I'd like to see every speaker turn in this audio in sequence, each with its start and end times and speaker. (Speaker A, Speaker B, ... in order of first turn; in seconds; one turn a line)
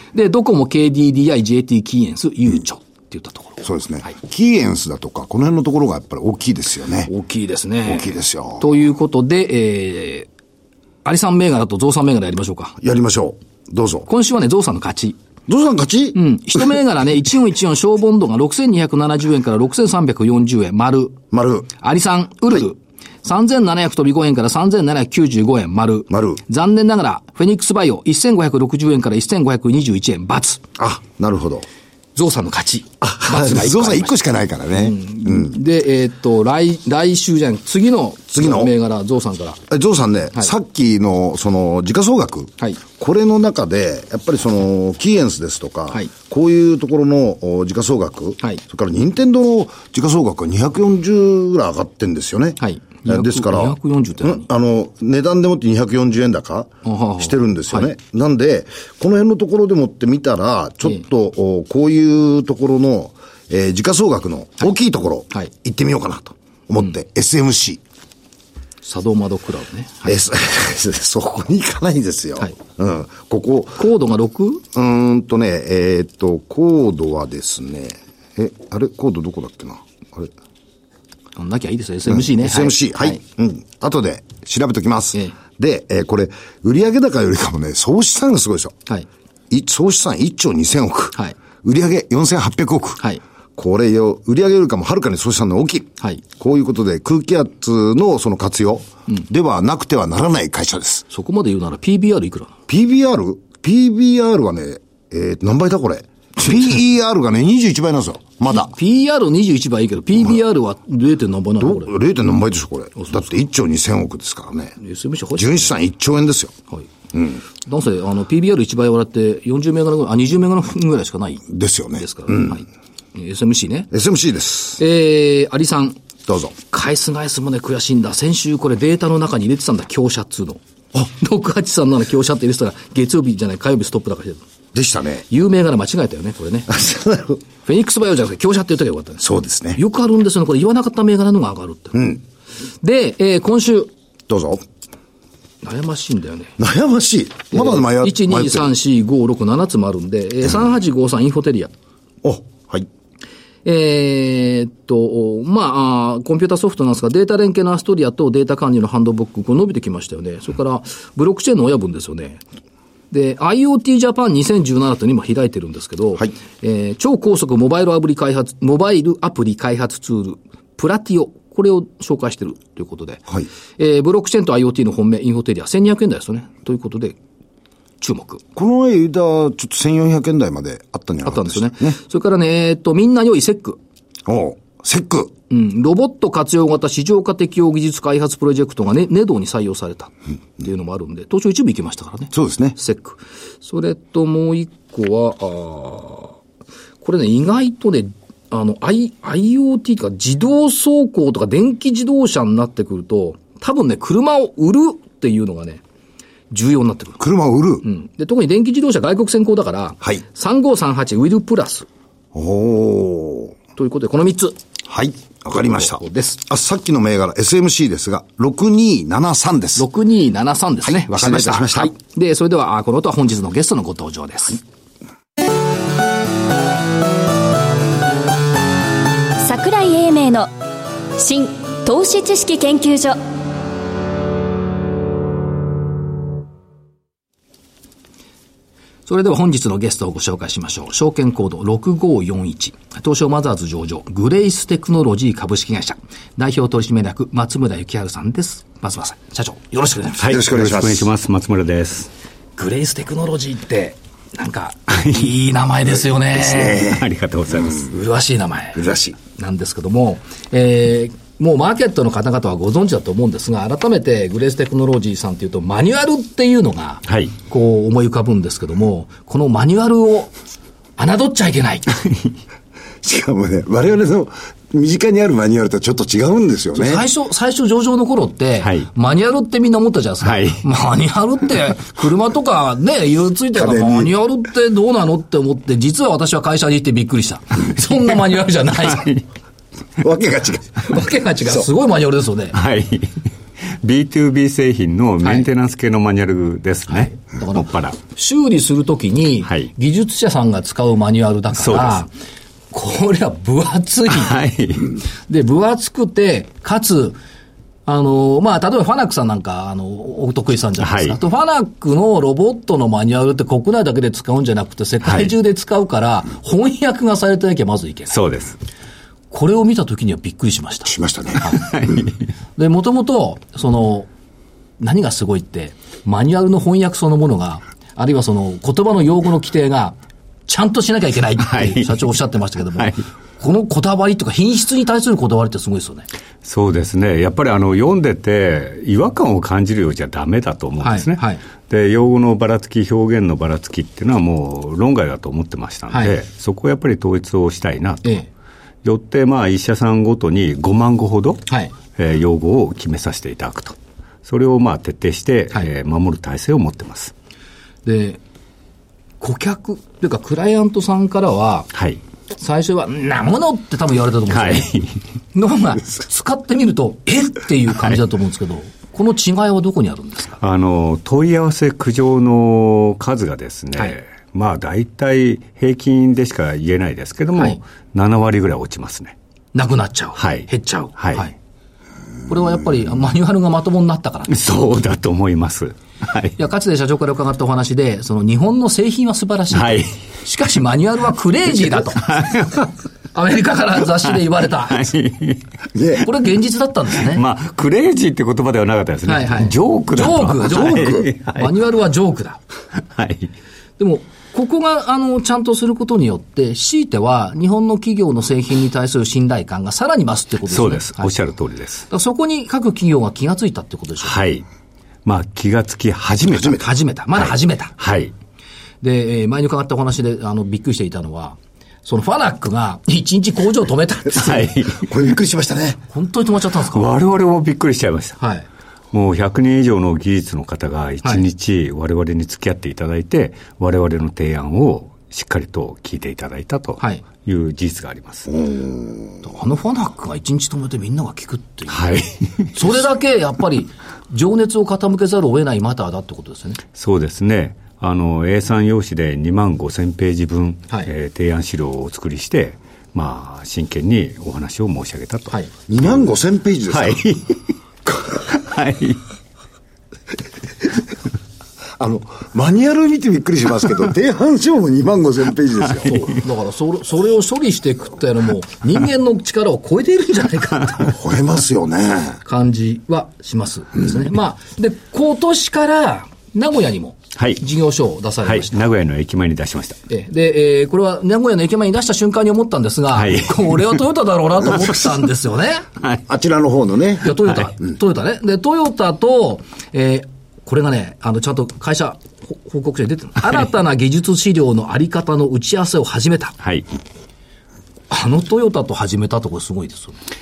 Speaker A: 0.1-3.6
Speaker B: 3.6-7.1
Speaker A: 7.1-10.3
Speaker B: 7.9-8.7
Speaker A: 11.0-12.8
Speaker B: 12.8-14.1
Speaker A: 14.1-15.2
Speaker B: 15.5-16.2
Speaker A: 16.1-21.2
Speaker B: 21.3-21.7
Speaker A: 21.8-30.6
Speaker B: 26.1-26.4
Speaker B: 30.8-31.6
Speaker A: 32.1-34.1
Speaker B: 33.0-35.6
Speaker A: 34.7-39.6
Speaker B: 38.3-38.7
Speaker B: 39.7-67.8
Speaker A: 52.6-54.5
Speaker A: 56.8-57.9
Speaker A: 68.8-70.1
Speaker B: 70.0-73.9
Speaker A: 73.8-74.6
Speaker B: 74.7-80.3
Speaker A: 81.3-83.2
Speaker B: 82.1-88.8
Speaker B: 89.5-93.0
Speaker B: 93.5-101.0
Speaker A: 101.1-102.5
Speaker B: 102.7-108.7
Speaker A: 108.5-111.9
Speaker B: 111.6-114.7
Speaker A: 114.8-115.7
Speaker B: 115.3-116.5
Speaker B: 117.1-117.4
Speaker A: 117.6-123.9
Speaker B: 121.5-122.6
Speaker B: 123.9-124.8
Speaker A: 124.8-126.0
Speaker B: 126.2-126.5
Speaker A: 126.6-134.4
Speaker B: 134.7-135.2
Speaker A: 135.3-136.7
Speaker B: 136.7-137.4
Speaker A: 137.6-142.1
Speaker B: 139.2-139.8
Speaker B: 141.9-142.2
Speaker A: 142.8-143.9
Speaker B: 144.3-144.6
Speaker A: 145.6-146.6
Speaker B: 146.6-148.7
Speaker A: 147.5-151.7
Speaker B: 152.2-152.9
Speaker A: 153.6-162.4
Speaker A: 163.1-177.2
Speaker A: 178.0-178.4
Speaker B: 178.6-181.9
Speaker A: 181.2-183.8
Speaker B: 184.2-185.3
Speaker A: 185.5-196.3
Speaker B: 192.3-192.8
Speaker A: 197.0-205.8
Speaker A: 206.5-207.2
Speaker B: 207.2-207.8
Speaker A: 207.8-211.9
Speaker B: 212.3-213.5
Speaker A: 213.8-214.6
Speaker B: 214.9-219.9
Speaker A: 215.5-216.4
Speaker A: 219.8-224.6
Speaker B: 221.0-221.9
Speaker C: 229.4-230.5
Speaker C: 231.2-233.2
Speaker A: 239.1-250.3
Speaker D: 250.2-252.1
Speaker B: 250.2-251.1
Speaker A: 252.6-256.9
Speaker B: 256.3-257.0
Speaker D: 256.8-257.9
Speaker A: 257.8-270.3
Speaker B: 258.7-259.1
Speaker D: 267.1-267.3
Speaker A: 271.0-272.0
Speaker B: 273.0-277.0
Speaker A: 276.7-289.2
Speaker D: 278.6-278.9
Speaker D: 280.2-280.6
Speaker B: 283.5-284.1
Speaker B: 290.0-291.0
Speaker A: 290.8-292.6
Speaker D: 292.5-293.3
Speaker D: 293.8-298.0
Speaker A: 296.9-302.1
Speaker D: 301.5-302.0
Speaker A: 302.7-304.3
Speaker D: 304.1-305.0
Speaker A: 305.3-307.2
Speaker A: 307.9-318.2
Speaker D: 310.8-311.2
Speaker D: 315.0-315.3
Speaker D: 318.1-318.6
Speaker A: 319.3-321.6
Speaker B: 320.9-322.0
Speaker D: 321.6-322.1
Speaker A: 322.6-324.1
Speaker A: 324.8-336.1
Speaker D: 331.4-332.0
Speaker D: 332.8-333.0
Speaker D: 336.4-348.2
Speaker A: 340.8-341.4
Speaker A: 345.9-346.2
Speaker D: 348.8-357.1
Speaker A: 351.5-351.7
Speaker A: 357.8-358.2
Speaker A: 359.2-361.7
Speaker D: 361.7-362.0
Speaker A: 362.4-364.8
Speaker D: 364.3-365.0
Speaker A: 365.3-370.4
Speaker D: 370.4-379.1
Speaker A: 379.5-381.3
Speaker D: 380.2-381.3
Speaker A: 382.3-384.4
Speaker D: 384.3-386.4
Speaker A: 386.4-392.3
Speaker D: 389.5-389.9
Speaker D: 392.1-392.7
Speaker A: 393.1-394.9
Speaker D: 394.7-395.4
Speaker B: 395.7-396.1
Speaker A: 396.0-397.2
Speaker D: 397.1-401.6
Speaker A: 399.1-402.4
Speaker B: 400.4-401.1
Speaker D: 402.9-403.3
Speaker A: 403.8-411.1
Speaker D: 410.5-411.9
Speaker A: 411.9-414.2
Speaker D: 414.0-414.4
Speaker D: 415.0-418.1
Speaker A: 416.3-417.7
Speaker A: 418.8-424.5
Speaker D: 424.1-424.9
Speaker B: 424.7-425.8
Speaker A: 425.9-426.9
Speaker D: 426.7-428.2
Speaker A: 428.2-428.4
Speaker D: 428.9-438.3
Speaker B: 438.3-439.1
Speaker A: 439.2-441.9
Speaker D: 441.7-442.5
Speaker A: 442.5-446.6
Speaker D: 446.7-455.3
Speaker B: 455.7-457.0
Speaker D: 456.7-457.4
Speaker D: 458.2-459.0
Speaker B: 461.8-465.9
Speaker A: 465.8-470.9
Speaker B: 470.9-472.2
Speaker A: 472.2-478.6
Speaker D: 477.1-477.4
Speaker D: 478.2-479.8
Speaker A: 479.9-485.6
Speaker D: 482.9-483.8
Speaker B: 486.1-487.1
Speaker A: 487.0-496.3
Speaker D: 496.4-496.6
Speaker A: 497.9-500.0